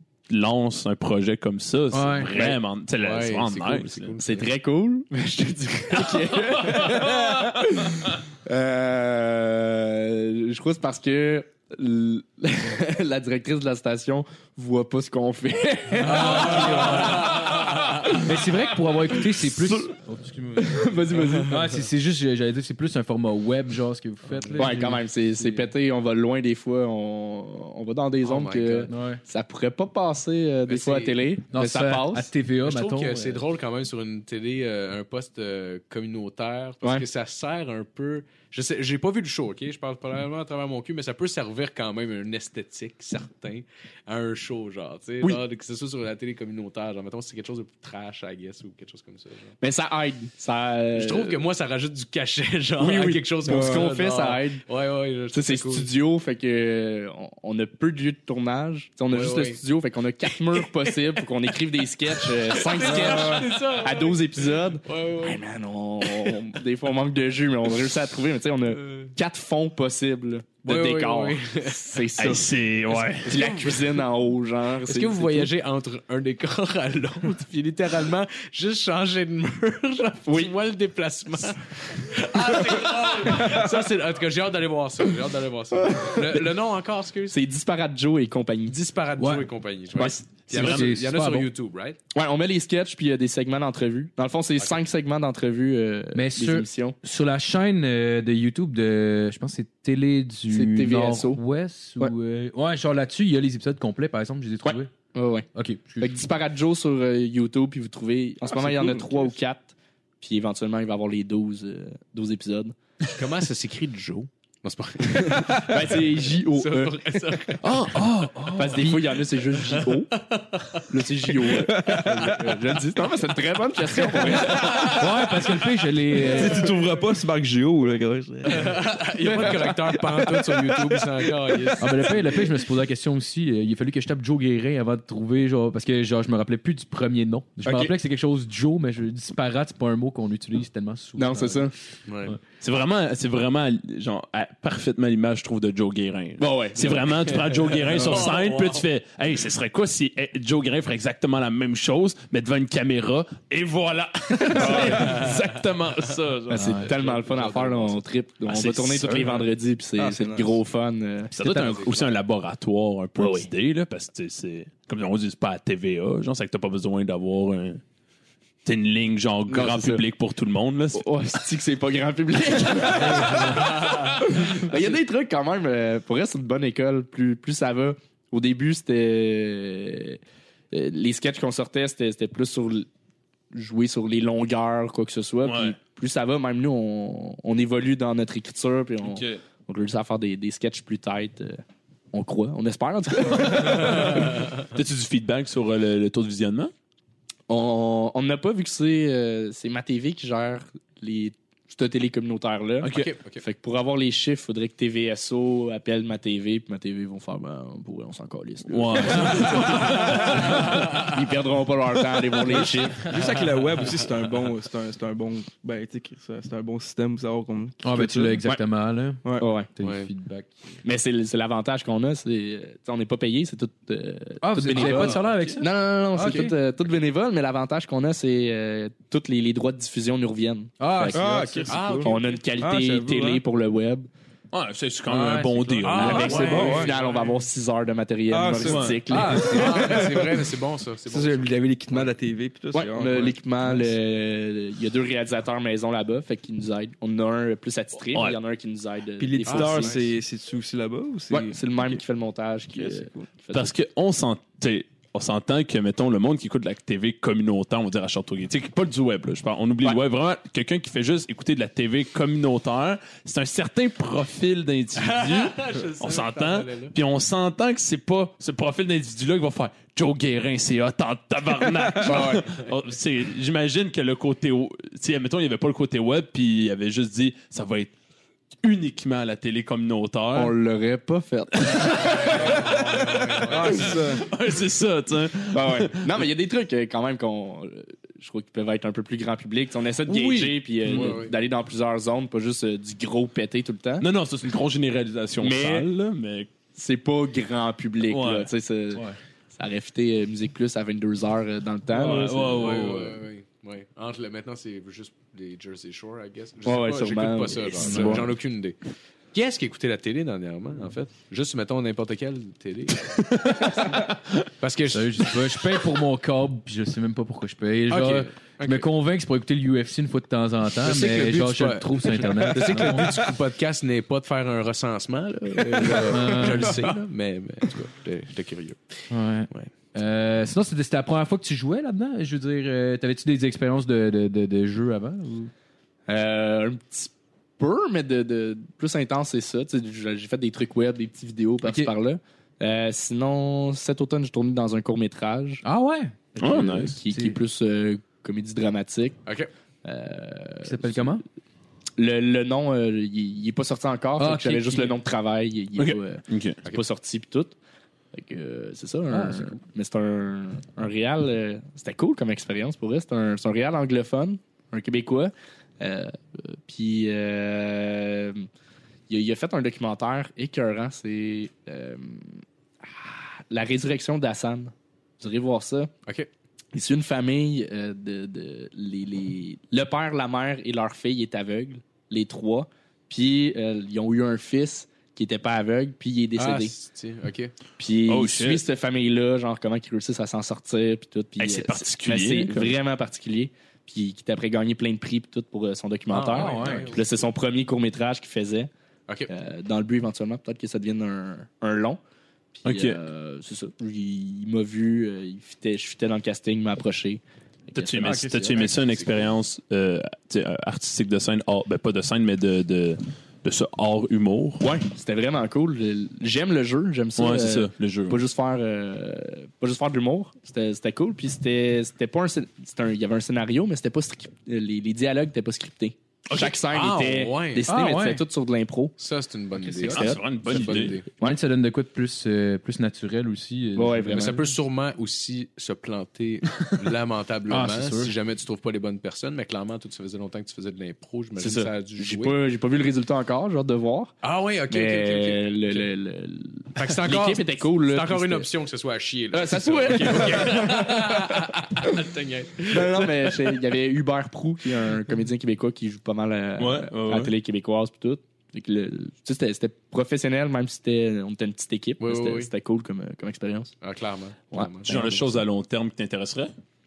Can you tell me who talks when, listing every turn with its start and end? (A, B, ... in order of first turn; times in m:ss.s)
0:00.3-0:04.1 A
0:01.9-0:02.3 B
0:02.3-0:02.6 C
0:03.0-0:04.5 D
0:04.2-0:18.3 C
0:06.7-0:07.1 A
0:16.0-0:17.4 B
0:16.2-0:17.9 D
0:16.7-0:17.3 A
0:18.1-0:25.7 B
0:20.6-0:21.8 C
0:24.6-0:32.3 C
0:28.2-0:28.9 D
0:28.9-0:29.2 B
0:30.7-0:31.2 D
0:31.5-0:33.4 B
0:32.6-0:49.5 D
0:49.6-0:51.4 C
0:50.9-0:55.9 D
0:52.8-0:54.6 C
0:53.5-0:53.9 E
0:55.3-1:15.5 C
0:59.1-0:59.6 D
1:00.2-1:01.2 D
1:02.1-1:05.4 D
1:02.8-1:03.5 E
1:06.0-1:06.4 D
1:10.6-1:12.0 D
1:12.2-1:13.4 A
1:13.3-1:13.9 D
1:14.8-1:27.4 D
1:20.2-1:20.5 C
1:27.3-1:28.8 C
1:28.7-1:32.0 D
1:29.2-1:29.5 B
1:30.0-1:30.2 C
1:30.0-1:30.9 A
1:30.5-1:31.5 B
1:32.1-1:37.0 C
1:36.1-1:44.9 B
1:40.5-1:41.4 C
1:44.6-1:45.5 C
1:45.5-1:46.2 B
1:46.0-1:52.7 C
1:48.5-1:49.3 E
1:53.1-1:57.7 D
1:55.2-1:57.6 C
1:57.6-1:58.7 A
1:58.0-1:59.0 B
1:58.6-2:00.1 C
1:59.5-2:00.9 D
2:00.9-2:05.0 C
2:01.5-2:02.5 E
2:02.1-2:02.6 D
2:04.0-2:05.0 D
2:04.8-2:06.7 B
2:06.3-2:11.8 E
2:08.4-2:12.4 D
2:09.2-2:09.7 C
2:11.8-2:21.7 B
2:21.2-2:21.7 C
2:22.0-2:22.3 D
2:22.6-2:36.8 A
2:26.4-2:27.2 C
2:27.3-2:28.8 D
2:34.4-2:35.2 C
2:34.6-2:35.5 D
2:36.5-2:42.1 C
2:36.5-2:36.9 B
2:36.9-2:38.0 D
2:38.4-2:39.4 A
2:40.0-2:40.6 E
2:41.3-2:47.8 A
2:43.2-2:43.5 C
2:48.6-2:51.1 A
2:49.5-2:50.0 C
2:50.9-3:00.2 C
2:53.6-2:54.2 D
3:00.7-3:02.9 C
3:03.5-3:11.6 C
3:05.4-3:05.8 A
3:09.0-3:09.4 A
3:12.1-3:14.4 C
3:13.4-3:16.7 A
3:17.5-3:33.1 C
3:22.8-3:23.1 A
3:22.9-3:23.4 D
3:28.7-3:30.9 A
3:32.5-3:38.4 E
3:37.8-3:39.2 B
3:39.4-3:39.7 C
3:39.7-3:40.6 B
3:39.8-3:40.1 D
3:40.8-3:54.1 C
3:44.4-3:46.5 B
3:50.8-3:51.8 B
3:51.1-3:53.4 E
3:51.7-3:52.4 D
3:54.5-3:56.6 A
3:55.1-3:56.7 B
3:55.8-3:57.4 D
3:56.0-3:59.6 C
3:56.3-3:57.0 E
3:58.3-4:00.4 E
3:58.6-3:59.0 A
3:59.1-4:00.0 B
3:59.4-4:02.1 D
4:01.1-4:03.9 E
4:02.7-4:10.0 C
4:09.2-4:12.0 E
4:09.4-4:10.1 D
4:11.3-4:13.7 C
4:12.7-4:13.3 E
4:13.5-4:37.9 A
4:25.0-4:26.9 D
4:32.0-4:32.7 D
4:38.6-4:40.5 A
4:40.3-4:42.5 C
4:41.6-4:46.2 A
4:42.0-4:44.0 D
4:43.5-4:44.2 E
4:45.5-4:54.0 C
4:50.2-4:51.2 A
4:50.8-4:51.3 D
4:54.0-4:56.5 A
4:55.4-4:55.9 C
4:56.7-5:03.0 C
4:58.1-4:58.5 A
5:01.9-5:03.2 A
5:02.2-5:08.8 D
5:06.6-5:08.3 C
5:07.8-5:08.2 B
5:09.3-5:13.1 D
5:13.1-5:14.4 A
5:14.6-5:15.3 D
5:14.9-5:23.2 B
5:17.9-5:18.9 D
5:20.8-5:28.8 D
5:25.8-5:26.1 E
5:26.1-5:26.8 B
5:29.1-5:35.5 B
5:36.1-5:45.6 C
5:41.6-5:41.9 B
5:45.6-5:47.4 B
5:46.4-5:49.2 C
5:46.4-5:47.0 A
5:49.8-5:51.2 C
5:50.6-5:51.2 B
5:52.0-5:57.6 C
5:54.2-5:55.0 B
5:55.8-5:56.6 A
5:58.1-6:08.5 C
5:59.1-5:59.6 B
6:09.1-6:15.9 C
6:16.7-6:26.7 C
6:26.4-6:27.5 D
6:27.8-6:38.7 C
6:28.1-6:28.6 A
6:31.4-6:32.8 A
6:36.1-6:37.3 D
6:36.3-6:36.9 B
6:39.3-6:42.0 C
6:42.5-6:48.7 C
6:42.6-6:43.0 A
6:47.7-6:54.7 A
6:48.5-6:48.9 D
6:54.6-7:08.9 C
6:57.2-6:58.2 A
7:06.3-7:07.2 A
7:06.7-7:07.7 D
7:07.7-7:08.2 B
7:09.0-7:11.1 D
7:09.7-7:11.4 C
7:09.9-7:11.0 A
7:11.2-7:14.5 B
7:13.8-7:14.4 C
7:14.1-7:22.4 D
7:17.5-7:18.1 B
7:21.4-7:24.1 C
7:24.2-7:25.9 D
7:24.7-7:28.5 C
7:26.7-7:33.5 D
7:29.3-7:31.6 C
7:32.7-7:43.7 C
7:36.6-7:37.3 A
7:42.0-7:42.5 D
7:43.8-7:45.1 D
7:44.5-7:45.4 C
7:44.8-7:46.5 A